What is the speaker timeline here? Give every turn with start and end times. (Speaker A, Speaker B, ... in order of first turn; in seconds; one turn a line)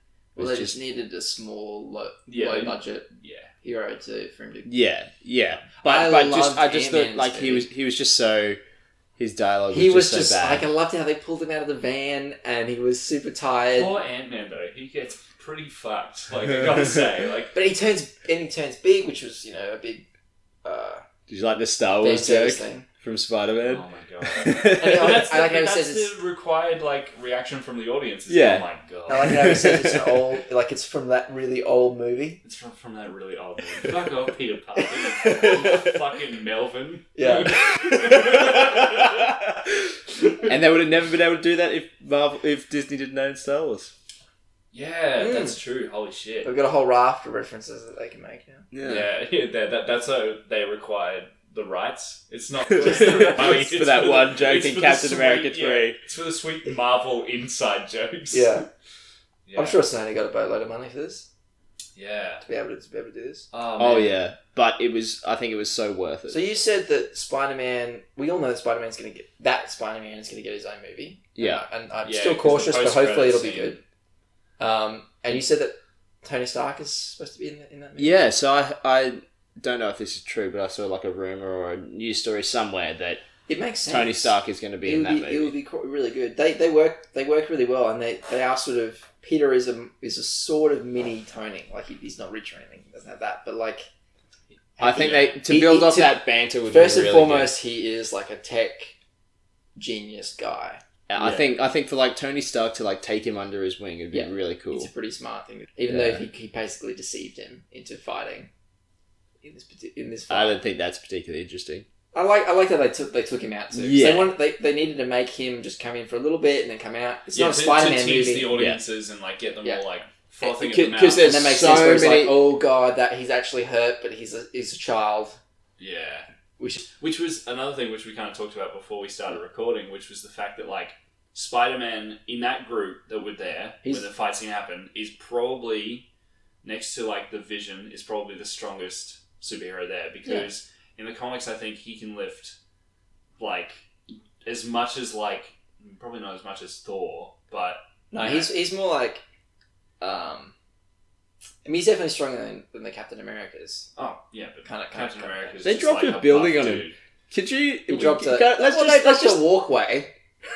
Speaker A: 0.3-0.8
Speaker B: 0.3-3.1
Speaker C: 2.3-3.5
Speaker B: 3.6-4.7
Speaker A: 4.7-8.6
Speaker B: 5.8-7.7
Speaker A: 9.2-10.7
Speaker B: 9.7-13.9
Speaker C: 13.8-17.5
Speaker B: 17.5-20.0
Speaker B: 20.6-21.0
Speaker A: 21.3-25.2
Speaker B: 22.0-22.9
Speaker C: 23.6-29.5
Speaker B: 24.7-26.1
Speaker A: 28.3-28.6
Speaker B: 29.1-32.4
Speaker A: 29.2-30.2
Speaker C: 32.4-39.3
Speaker B: 35.0-35.4
Speaker A: 35.3-36.0
Speaker B: 37.1-37.9
Speaker A: 37.9-39.7
Speaker A: 40.5-43.9
Speaker C: 44.7-46.5
Speaker B: 45.2-45.6
Speaker B: 46.4-48.7
Speaker A: 48.7-49.1
Speaker C: 48.8-58.6
Speaker A: 52.7-56.0
Speaker B: 52.8-53.4
Speaker B: 58.3-58.6
Speaker C: 59.5-59.8
Speaker B: 59.5-61.3
Speaker C: 62.0-62.4
Speaker B: 62.4-63.5
Speaker C: 63.5-64.2
Speaker A: 63.8-66.4
Speaker B: 66.3-73.8
Speaker A: 71.4-71.6
Speaker C: 72.0-73.8
Speaker B: 74.6-78.2
Speaker A: 78.0-83.2
Speaker B: 83.5-93.9
Speaker A: 83.9-85.5
Speaker B: 94.8-99.0
Speaker A: 94.8-97.5
Speaker C: 94.9-95.3
Speaker B: 99.8-100.8
Speaker A: 101.1-104.9
Speaker C: 101.2-101.5
Speaker B: 104.1-108.5
Speaker A: 105.9-106.2
Speaker B: 109.4-110.6
Speaker A: 110.3-111.8
Speaker B: 112.1-118.5
Speaker A: 113.7-114.3
Speaker C: 117.3-121.4
Speaker A: 118.5-118.8
Speaker A: 120.4-122.4
Speaker B: 121.2-125.4
Speaker C: 125.8-126.2
Speaker B: 126.6-126.8
Speaker C: 127.0-136.1
Speaker C: 136.6-142.6
Speaker C: 143.4-143.8
Speaker C: 144.4-148.5
Speaker B: 148.1-149.2
Speaker B: 150.0-150.5
Speaker B: 151.6-153.9
Speaker C: 153.9-156.9
Speaker B: 154.7-155.6
Speaker A: 155.6-159.4
Speaker B: 157.9-160.1